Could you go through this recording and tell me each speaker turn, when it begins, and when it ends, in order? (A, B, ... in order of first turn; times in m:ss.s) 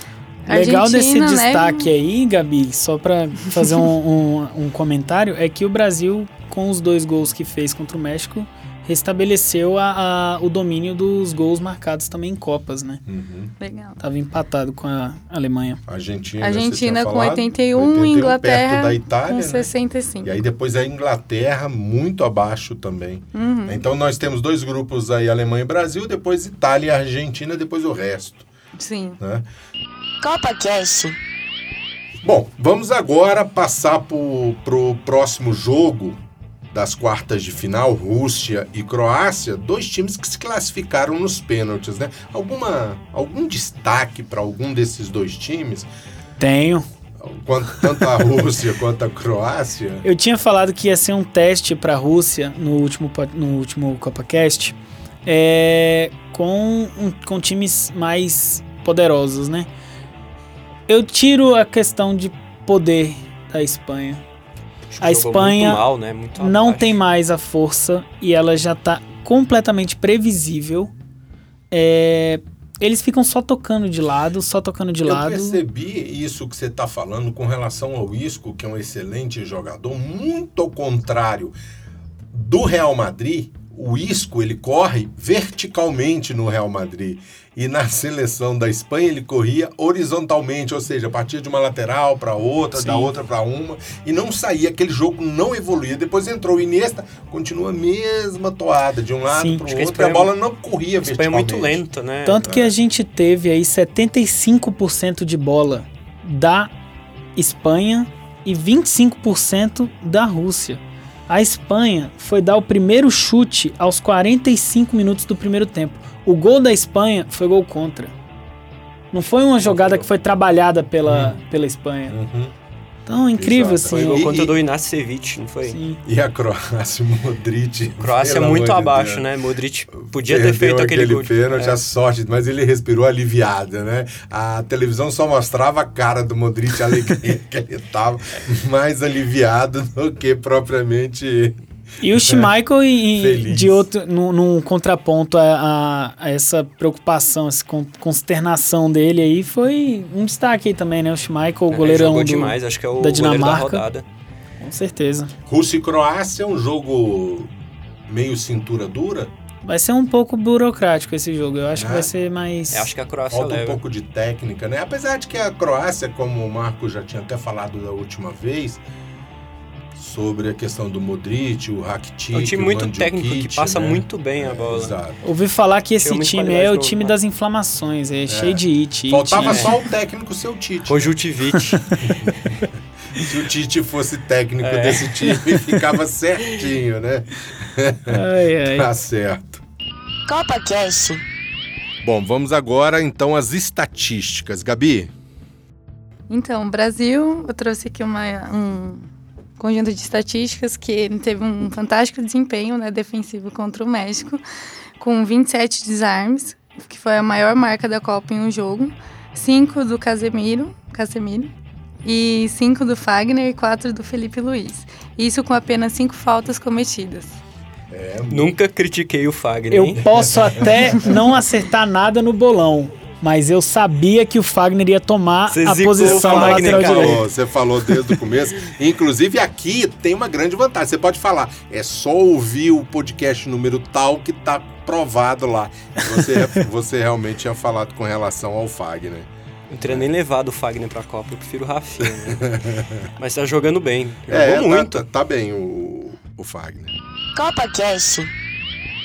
0:00.5-0:01.9 A
0:00.5-0:13.0 B
0:13.1-0:13.5 C
0:13.6-0:14.0 A
0:14.0-0:15.8 B
0:15.9-0:19.7 C
0:16.4-0:20.3 A
0:20.2-0:28.5 C
0:23.3-0:23.8 A
0:28.8-0:29.2 A
0:29.2-0:29.5 C
0:30.2-0:31.2 D
0:32.2-0:36.2 C
0:36.7-0:45.9 C
0:46.4-0:46.8 B
0:47.2-0:50.1 C
0:50.0-0:59.7 B
1:00.9-1:04.2 B
1:04.9-1:07.0 E
1:05.0-1:05.8 B
1:06.4-1:10.9 B
1:11.7-1:15.6 B
1:15.0-1:21.5 C
1:22.3-1:41.8 C
1:32.8-1:33.1 B
1:39.3-1:39.6 B
1:39.7-1:40.3 E
1:41.0-1:42.5 E
1:42.2-1:46.7 B
1:42.4-1:42.7 C
1:47.4-1:58.1 B
1:59.1-2:02.2 B
1:59.6-2:00.1 E
2:01.0-2:01.4 C
2:02.1-2:02.5 C
2:03.1-2:04.2 B
2:03.4-2:04.6 C
2:03.9-2:05.8 E
2:05.7-2:06.0 B
2:06.0-2:09.2 C
2:08.0-2:11.8 E
2:10.0-2:21.6 C
2:22.0-2:33.8 B
2:22.1-2:22.5 C
2:23.1-2:23.9 C
2:31.7-2:34.0 E
2:34.6-2:35.3 B
2:35.5-2:37.5 C
2:38.1-2:39.3 C
2:39.6-2:42.9 B
2:41.8-2:42.1 C
2:42.7-2:43.8 E
2:43.3-2:48.8 C
2:50.0-2:55.2 C
2:52.3-2:55.0 E
2:55.2-2:59.8 B
2:56.0-2:57.1 E
2:58.3-3:01.1 C
2:59.4-2:59.8 E
3:00.9-3:02.1 E
3:01.7-3:02.1 B
3:02.0-3:02.4 C
3:03.1-3:09.6 C
3:04.6-3:05.6 E
3:08.1-3:08.9 B
3:10.3-3:11.2 D
3:12.0-3:15.1 C
3:16.3-3:19.1 A
3:19.6-3:24.4 A
3:25.0-3:31.5 A
3:32.0-3:37.4 A
3:37.9-3:38.5 C
3:38.3-3:40.0 E
3:39.7-3:47.2 B
3:40.0-3:41.2 C
3:45.5-3:47.2 E
3:46.0-3:59.3 C
3:59.7-4:02.6 E
4:02.1-4:03.0 C
4:03.2-4:05.0 E
4:04.3-4:06.9 C
4:07.4-4:08.3 D